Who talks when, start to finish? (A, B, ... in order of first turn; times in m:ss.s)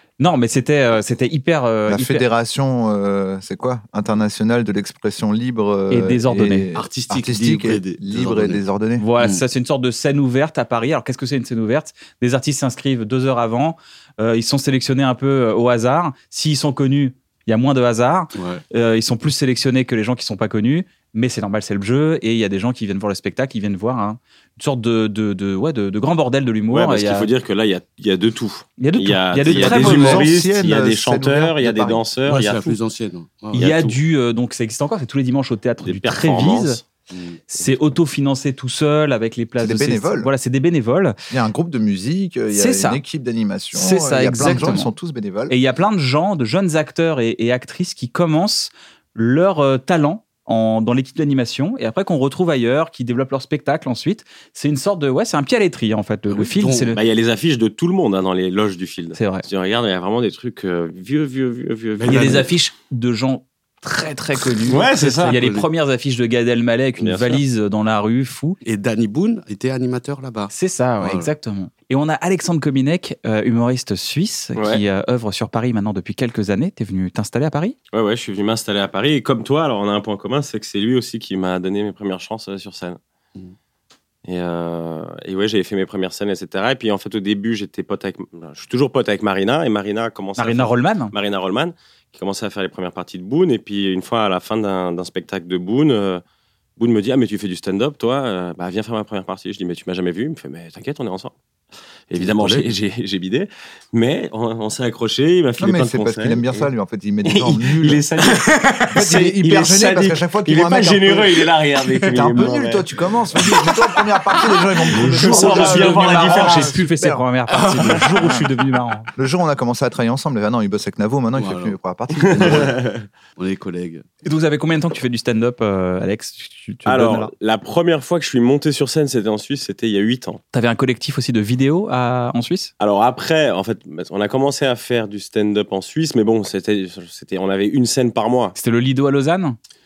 0:00.2-0:02.3 A
0:01.9-0:09.1 B
0:05.9-0:06.7 A
0:06.7-0:08.6 C
0:09.0-0:27.3 A
0:18.3-0:18.6 C
0:26.7-0:32.8 D
0:28.8-0:30.3 A
0:29.5-0:32.0 B
0:32.3-0:33.6 C
0:33.5-0:34.0 D
0:33.5-0:36.8 A
0:35.8-0:36.8 D
0:37.1-0:37.4 C
0:37.5-0:41.2 A
0:39.6-0:40.3 B
0:41.3-0:45.6 B
0:42.5-0:43.0 A
0:43.7-0:44.9 A
0:45.5-0:57.0 A
0:56.3-0:57.0 C
0:57.0-1:02.5 D
0:59.2-0:59.5 A
1:02.0-1:02.5 C
1:02.1-1:08.6 A
1:04.7-1:05.4 D
1:05.0-1:05.7 C
1:07.0-1:07.4 D
1:08.6-1:11.3 C
1:10.5-1:17.8 A
1:14.6-1:14.8 D
1:17.9-1:23.0 D
1:24.2-1:36.2 D
1:30.4-1:31.1 A
1:36.8-1:41.3 D
1:42.1-1:46.7 D
1:42.2-1:42.7 C
1:45.6-1:48.0 B
1:47.2-1:52.9 D
1:48.2-1:48.8 C
1:48.9-1:51.4 B
1:51.9-1:52.4 C
1:52.1-1:57.2 B
1:54.9-1:59.1 A
1:55.0-1:56.8 D
1:57.5-1:58.3 C
1:58.2-1:58.5 B
1:59.2-2:02.7 B
2:01.3-2:01.8 C
2:02.2-2:03.0 D
2:02.3-2:02.8 C
2:03.4-2:04.1 C
2:04.2-2:07.3 A
2:06.8-2:10.4 D
2:10.5-2:12.7 A
2:12.8-2:18.6 D
2:18.6-2:19.6 A